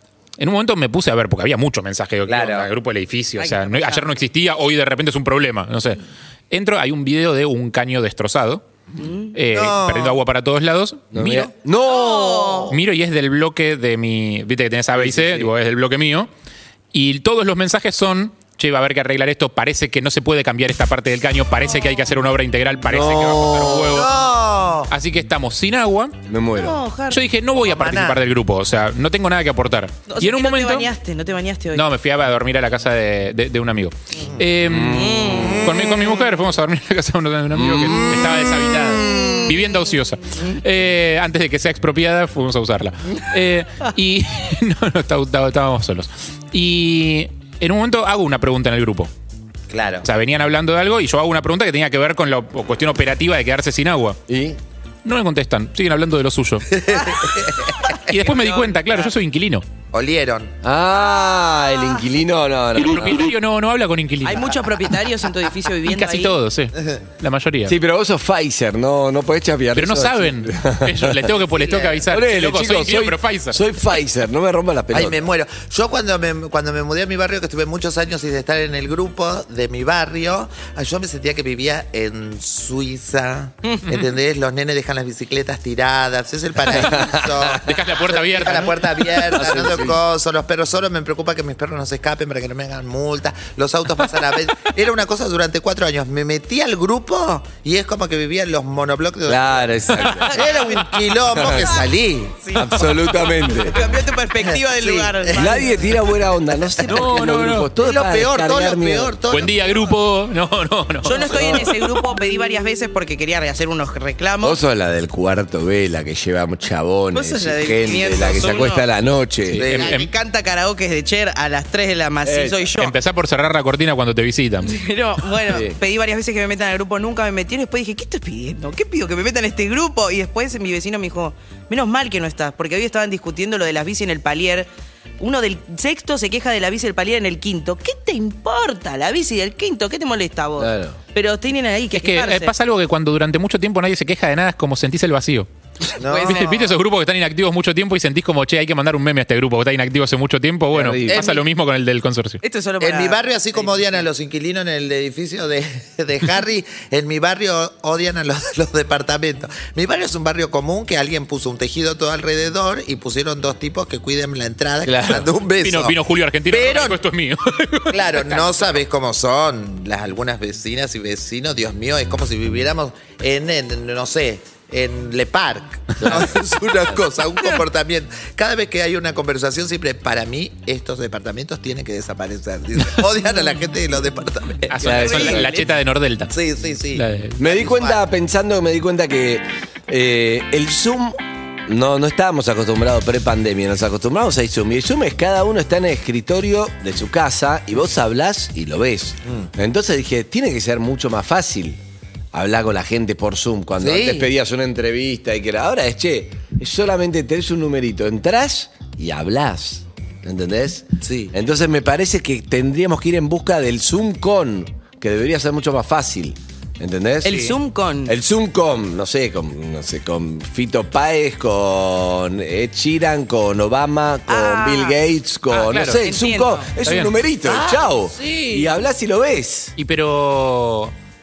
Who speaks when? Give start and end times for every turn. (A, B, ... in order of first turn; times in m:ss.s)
0:00.4-0:08.6 A
0:02.3-0:02.7 B
0:03.4-0:04.1 C
0:09.0-0:09.4 C
0:09.3-0:11.5 A
0:09.5-0:10.2 D
0:11.1-0:12.7 B
0:11.8-0:12.8 C
0:12.7-0:16.3 A
0:15.0-0:15.5 B
0:16.9-0:24.1 A
0:21.7-0:22.0 C
0:22.9-0:24.0 B
0:23.8-0:24.9 D
0:24.9-0:26.2 A
0:26.3-0:26.8 B
0:26.6-0:27.2 C
0:27.1-0:30.9 A
0:27.6-0:28.2 D
0:30.1-0:31.8 C
0:31.7-0:49.1 A
0:34.7-0:35.6 B
0:34.9-0:35.7 C
0:35.4-0:35.9 D
0:37.5-0:38.2 B
0:38.1-0:39.5 D
0:49.7-0:50.1 D
0:50.0-0:54.2 A
0:54.3-0:54.6 B
0:55.0-0:56.7 A
0:56.7-0:57.6 D
0:56.9-0:59.1 C
0:58.1-0:59.6 A
0:59.9-1:00.5 D
1:00.6-1:03.3 B
1:02.8-1:04.5 A
1:04.2-1:06.4 C
1:05.9-1:07.8 A
1:07.7-1:11.4 B
1:09.8-1:13.6 A
1:11.5-1:12.0 D
1:12.1-1:15.2 B
1:14.9-1:42.4 D
1:23.7-1:24.0 C
1:26.7-1:27.6 B
1:27.6-1:29.1 A
1:29.2-1:30.0 B
1:39.3-1:40.4 B
1:40.2-1:40.8 C
1:41.3-1:41.7 B
1:42.4-1:46.0 C
1:42.6-1:43.8 B
1:44.4-1:45.7 D
1:45.4-1:49.1 B
1:46.9-1:47.7 A
1:47.8-1:49.8 D
1:49.3-1:51.7 A
1:51.0-1:54.6 C
1:51.3-1:51.7 B
1:54.4-1:59.8 B
1:57.1-1:58.9 C
1:59.5-2:00.1 A
1:59.6-2:00.0 D
1:59.7-2:02.9 C
2:02.2-2:02.7 B
2:02.8-2:04.7 A
2:04.6-2:14.7 C
2:05.5-2:05.8 B
2:15.2-2:22.5 C
2:20.6-2:21.0 B
2:21.9-2:25.5 A
2:25.9-2:26.5 C
2:26.0-2:26.8 D
2:26.3-2:32.4 A
2:30.7-2:31.2 B
2:31.1-2:31.4 D
2:32.4-2:34.0 C
2:32.8-2:47.0 D
2:44.8-2:45.3 B
2:45.6-2:48.6 A
2:47.9-3:05.7 D
3:04.7-3:06.4 A
3:04.8-3:05.5 B
3:04.8-3:05.5 C
3:06.3-3:08.0 D
3:06.9-3:07.4 A
3:07.4-3:11.2 B
3:11.7-3:21.8 B
3:22.3-3:37.5 B
3:23.8-3:24.3 D
3:31.0-3:31.3 D
3:37.2-3:38.1 C
3:37.3-3:37.6 A
3:38.1-3:49.8 B
3:44.3-3:45.0 C
3:45.5-3:46.0 A
3:46.0-3:46.7 C
3:46.8-3:47.1 A
3:49.8-3:50.9 A